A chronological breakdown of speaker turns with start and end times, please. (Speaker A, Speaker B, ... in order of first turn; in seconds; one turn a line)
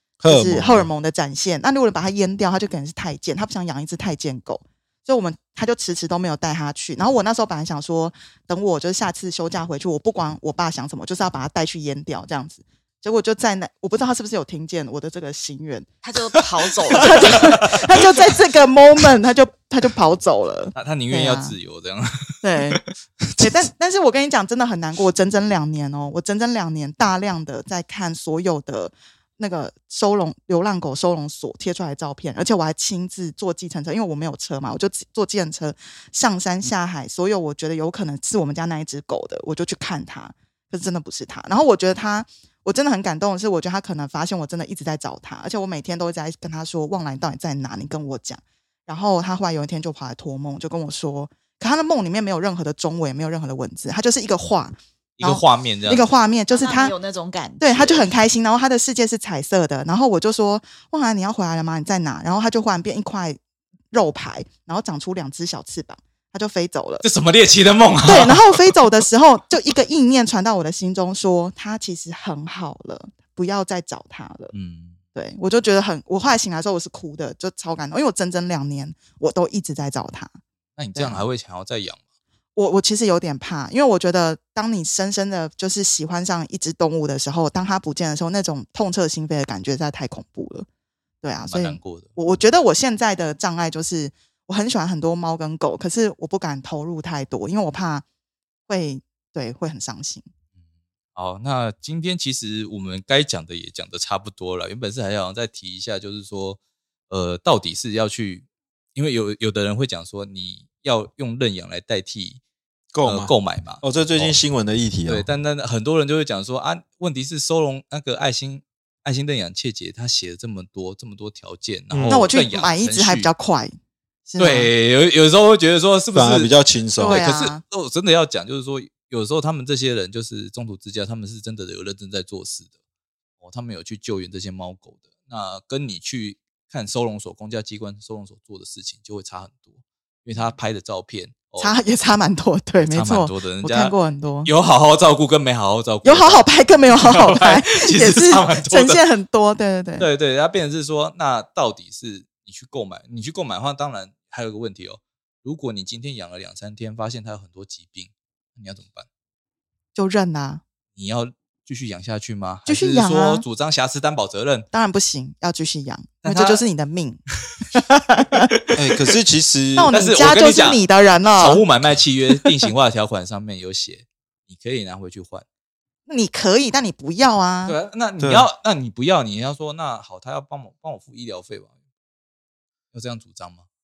Speaker A: 0.2-0.9
Speaker B: 0.2-15.9
Speaker C: 16.0-17.6
Speaker B: 16.9-21.6
Speaker D: 20.7-22.9
Speaker B: 22.4-22.8
Speaker B: 23.4-57.0
Speaker D: 55.2-56.0
Speaker C: 56.5-58.1
Speaker B: 57.6-63.4
Speaker B: 63.9-67.0
Speaker D: 67.0-68.7
Speaker B: 68.0-74.5
Speaker D: 74.5-75.0
Speaker B: 75.1-80.4
Speaker D: 80.8-82.0
Speaker B: 80.9-81.2
Speaker B: 82.5-90.7
Speaker B: 91.2-98.0
Speaker D: 91.5-92.1
Speaker B: 98.7-100.3
Speaker D: 101.1-112.4
Speaker A: 112.9-115.3
Speaker D: 113.0-114.3
Speaker D: 115.1-123.3
Speaker A: 121.9-122.3
Speaker B: 122.1-123.8
Speaker B: 124.3-124.7
Speaker D: 124.4-132.7
Speaker A: 126.1-127.2
Speaker B: 127.0-127.6
Speaker D: 133.4-141.8
Speaker B: 141.6-144.5
Speaker D: 142.8-149.0
Speaker B: 146.0-150.1
Speaker D: 150.0-159.1
Speaker B: 159.9-160.6
Speaker D: 160.9-164.7
Speaker B: 162.7-163.4
Speaker B: 164.7-167.2
Speaker D: 166.2-166.6
Speaker B: 167.7-168.5
Speaker D: 168.5-169.1
Speaker A: 168.8-169.9
Speaker B: 169.8-171.6
Speaker D: 169.9-170.8
Speaker D: 171.4-175.4
Speaker B: 176.1-177.8
Speaker D: 177.7-181.7
Speaker A: 178.2-178.5
Speaker D: 182.9-183.6